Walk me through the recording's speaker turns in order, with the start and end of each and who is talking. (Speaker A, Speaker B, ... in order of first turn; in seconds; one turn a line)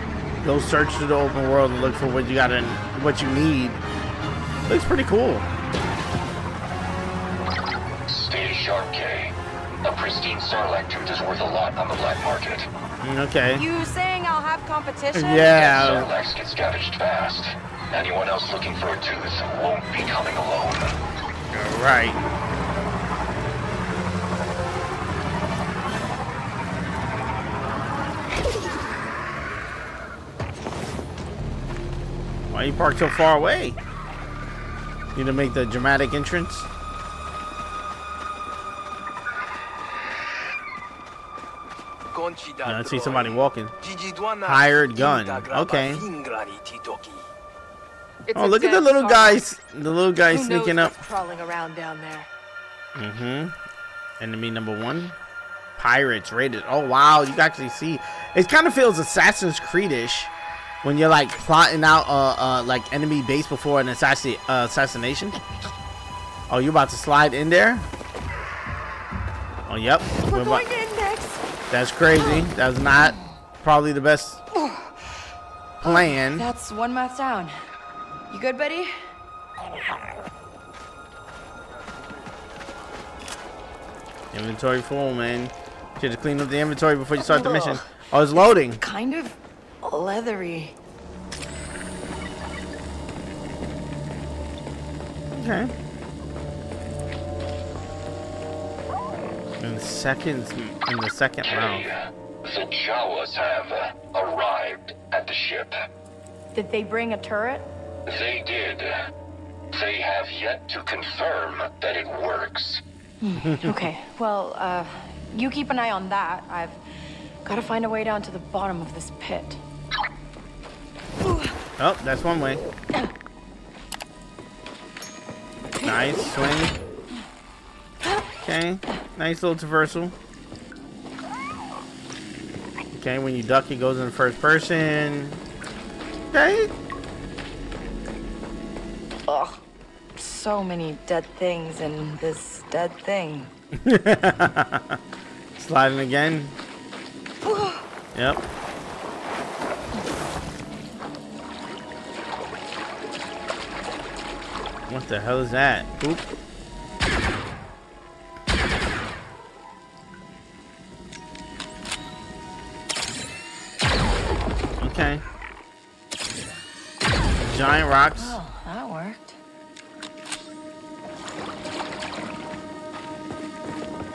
Speaker A: 0.4-3.8
Speaker A: 4.7-5.5
Speaker B: 8.1-12.7
Speaker A: 13.0-13.6
Speaker C: 13.5-16.0
Speaker A: 15.1-16.1
Speaker B: 15.6-20.9
Speaker A: 21.5-22.2
Speaker A: 32.5-33.8
Speaker A: 35.1-36.7
Speaker D: 42.1-47.2
Speaker A: 42.6-43.7
Speaker A: 44.4-46.0
Speaker C: 48.3-49.4
Speaker A: 48.3-51.0
Speaker C: 50.3-52.3
Speaker A: 53.0-53.5
Speaker A: 54.2-55.1
Speaker A: 55.8-60.3
Speaker A: 60.8-65.4
Speaker A: 66.5-67.9
Speaker A: 69.7-70.6
Speaker C: 70.2-71.4
Speaker A: 71.7-74.4
Speaker C: 74.5-74.9
Speaker A: 75.8-76.5
Speaker C: 75.8-77.5
Speaker C: 78.3-78.9
Speaker A: 84.3-88.8
Speaker C: 87.2-90.7
Speaker A: 95.3-95.7
Speaker A: 99.6-101.9
Speaker B: 101.4-105.7
Speaker C: 106.5-107.7
Speaker B: 108.1-108.9
Speaker B: 109.7-112.8
Speaker C: 113.2-116.8
Speaker A: 113.4-113.8
Speaker C: 117.4-119.6
Speaker C: 121.2-121.5
Speaker A: 121.8-122.6
Speaker C: 125.8-126.2
Speaker A: 125.8-126.7
Speaker A: 128.4-130.1
Speaker A: 132.9-135.4
Speaker A: 136.3-136.7
Speaker C: 139.3-139.6
Speaker C: 140.2-143.5
Speaker A: 143.8-145.0
Speaker A: 145.6-146.6
Speaker C: 147.4-147.8
Speaker A: 148.1-148.4
Speaker A: 154.9-156.2
Speaker A: 164.8-165.2
Speaker A: 167.5-168.4
Speaker C: 168.2-169.4